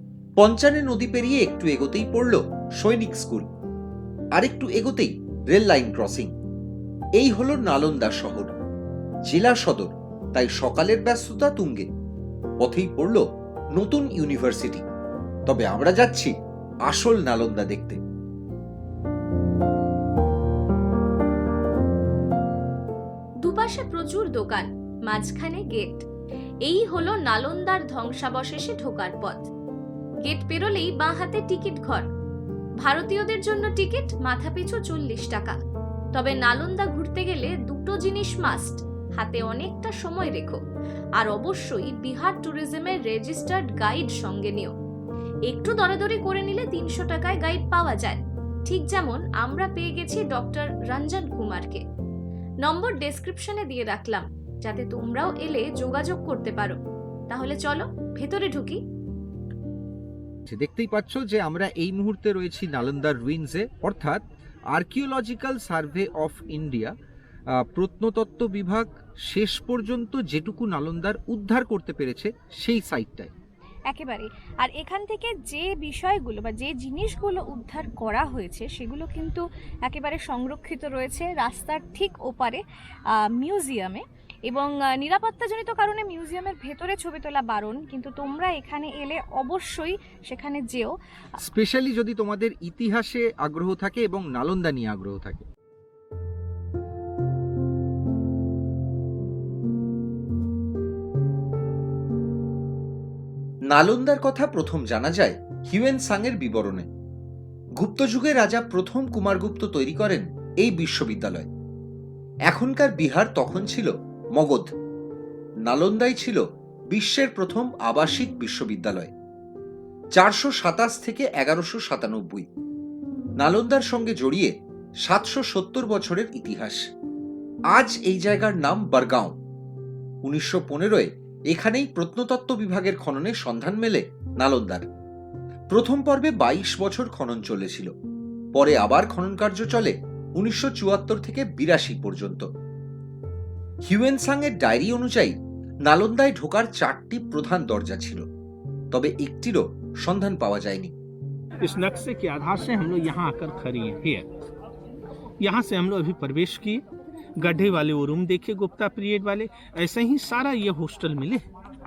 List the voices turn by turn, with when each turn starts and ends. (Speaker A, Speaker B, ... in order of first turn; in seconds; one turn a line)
Speaker A: 0.4-3.5
Speaker A: 4.4-6.3
Speaker A: 7.2-8.5
Speaker A: 9.3-11.8
Speaker A: 12.6-13.2
Speaker A: 13.8-14.8
Speaker A: 15.5-16.3
Speaker A: 16.9-18.0
Speaker B: 23.4-26.0
Speaker B: 26.6-29.4
Speaker B: 30.2-32.0
Speaker B: 32.8-35.6
Speaker B: 36.1-40.6
Speaker B: 41.2-44.7
Speaker B: 45.5-51.8
Speaker B: 52.6-56.8
Speaker B: 57.3-58.8
Speaker C: 60.5-64.2
Speaker C: 64.7-66.9
Speaker C: 67.6-73.3
Speaker D: 73.9-82.6
Speaker B: 76.0-76.4
Speaker B: 81.5-81.9
Speaker D: 83.3-90.9
Speaker C: 91.4-95.4
Speaker A: 103.7-106.8
Speaker A: 107.8-111.5
Speaker A: 112.5-114.7
Speaker A: 115.7-116.4
Speaker A: 116.9-119.1
Speaker A: 120.2-122.4
Speaker A: 123.4-124.5
Speaker A: 125.1-126.8
Speaker A: 127.7-129.3
Speaker A: 130.2-134.8
Speaker A: 135.7-137.9
Speaker A: 138.6-142.4
Speaker A: 143.9-145.3
Speaker A: 145.9-148.2
Speaker A: 148.9-150.9
Speaker E: 151.6-154.3
Speaker E: 155.4-156.8
Speaker E: 157.4-161.4